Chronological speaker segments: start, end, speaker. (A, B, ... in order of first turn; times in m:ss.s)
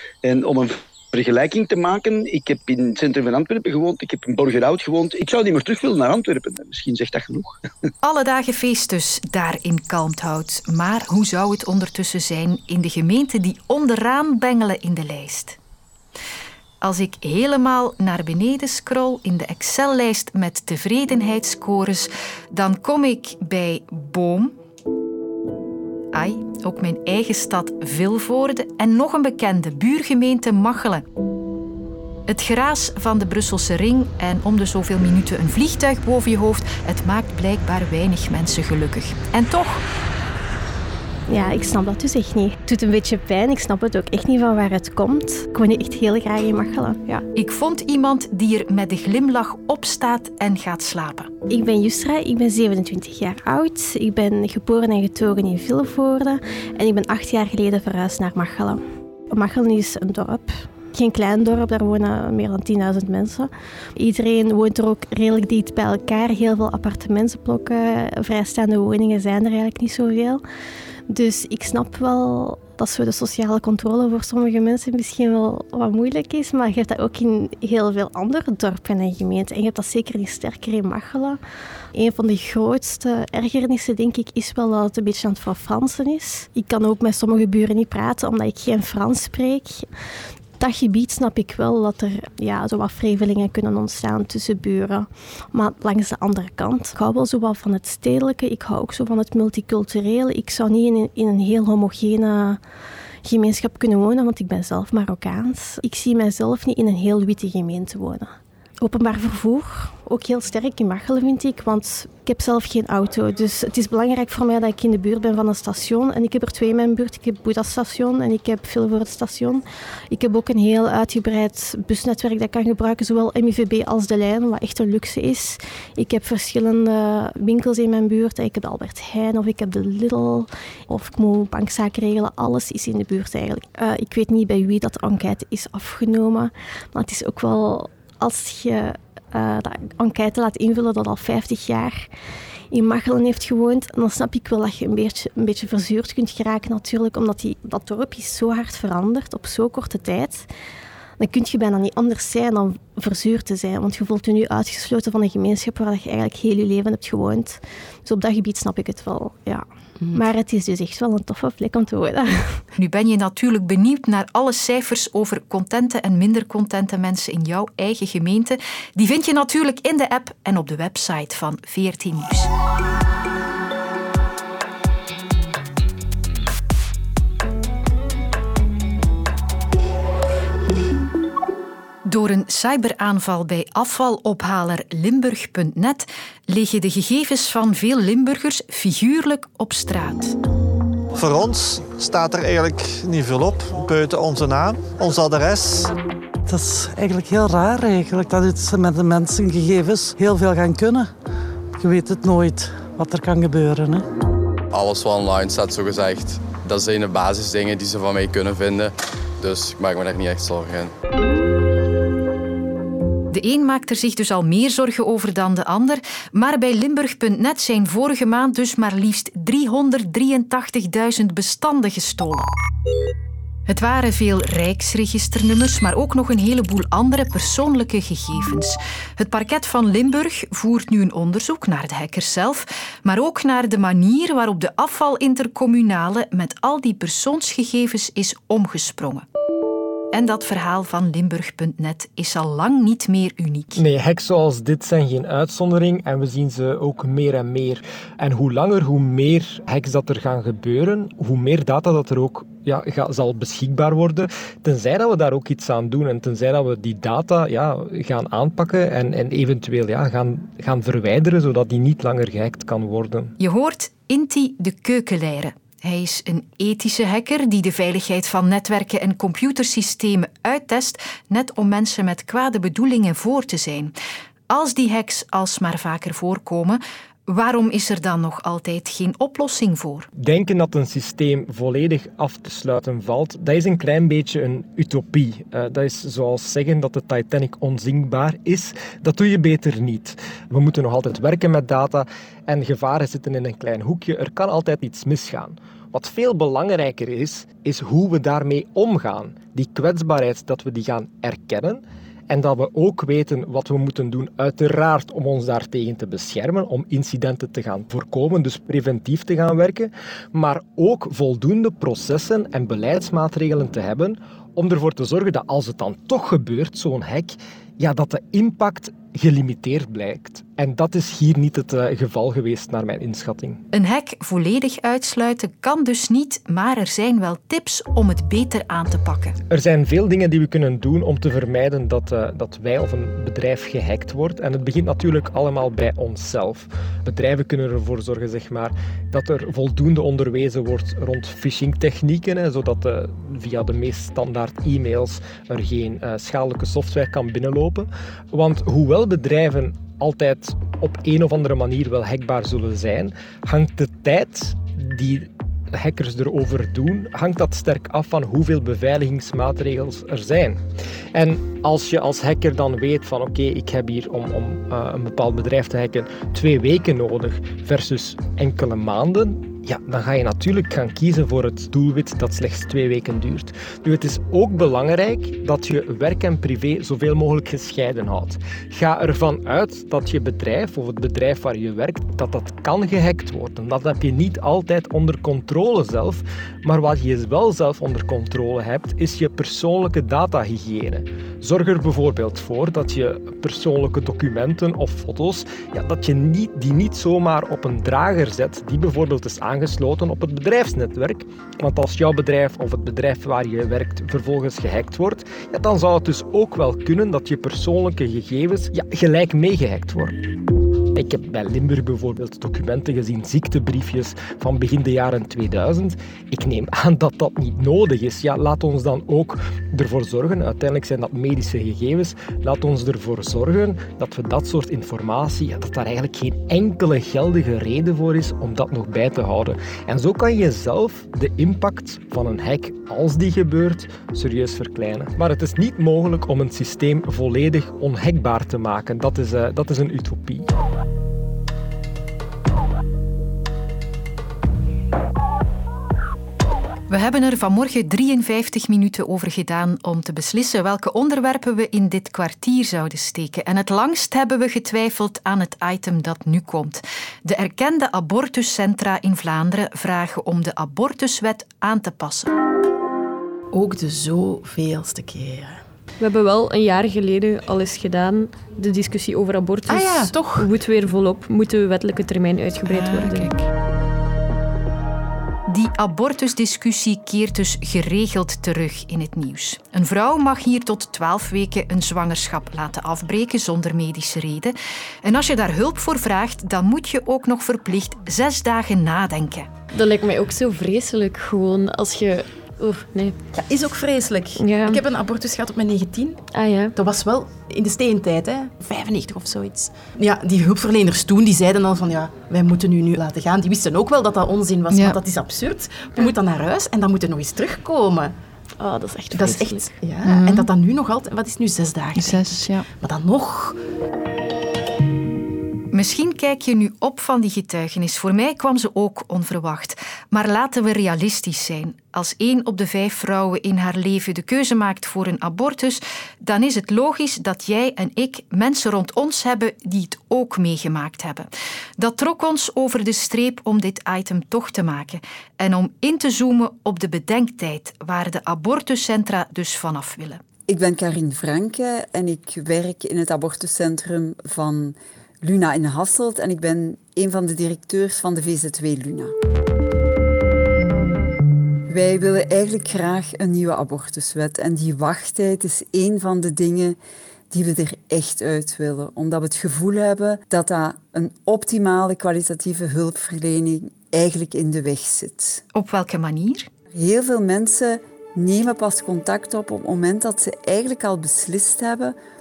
0:00.2-0:07.5 A
0:08.0-0:15.6 B
0:16.8-0:24.5 B
0:26.1-0:31.0 B
0:32.3-0:39.8 B
0:41.3-0:47.2 C
0:47.3-0:51.3 B
0:51.5-1:10.4 C
1:11.1-1:21.4 C
1:21.9-1:29.8 C
1:30.6-1:42.6 C
1:43.2-2:22.1 C
2:22.7-2:30.5 C
2:31.2-2:42.6 C
2:42.7-2:52.5 B
3:02.0-3:10.3 B
3:11.2-3:15.9 D
3:16.5-3:21.1 E
3:21.8-3:24.0 E
3:24.7-3:30.9 F
3:33.3-3:42.5 B
3:43.7-3:59.2 B
4:00.1-4:03.8 B
4:03.8-4:23.3 G
4:23.4-4:33.9 B
4:34.5-4:40.1 B
4:40.2-5:23.6 G
5:23.7-5:29.3 B
5:29.5-6:00.6 G
6:01.1-6:50.2 G
6:50.9-7:20.5 G
7:26.9-7:42.3 B
7:43.5-7:45.6 H
7:46.0-7:53.4 I
7:49.7-7:50.5 H
7:52.6-7:53.3 B
7:55.5-8:09.5 B
8:09.7-8:13.2 I
8:13.3-8:28.1 H
8:14.3-8:14.8 I
8:16.3-8:16.7 I
8:24.7-8:25.0 B
8:28.6-8:29.8 I
8:29.1-8:33.6 H
8:30.1-8:30.3 B
8:32.1-8:32.6 I
8:35.7-9:00.2 B
9:00.5-9:09.1 J
9:11.7-9:16.8 J
9:17.3-9:25.4 J
9:25.5-9:26.5 B
9:26.7-9:31.9 J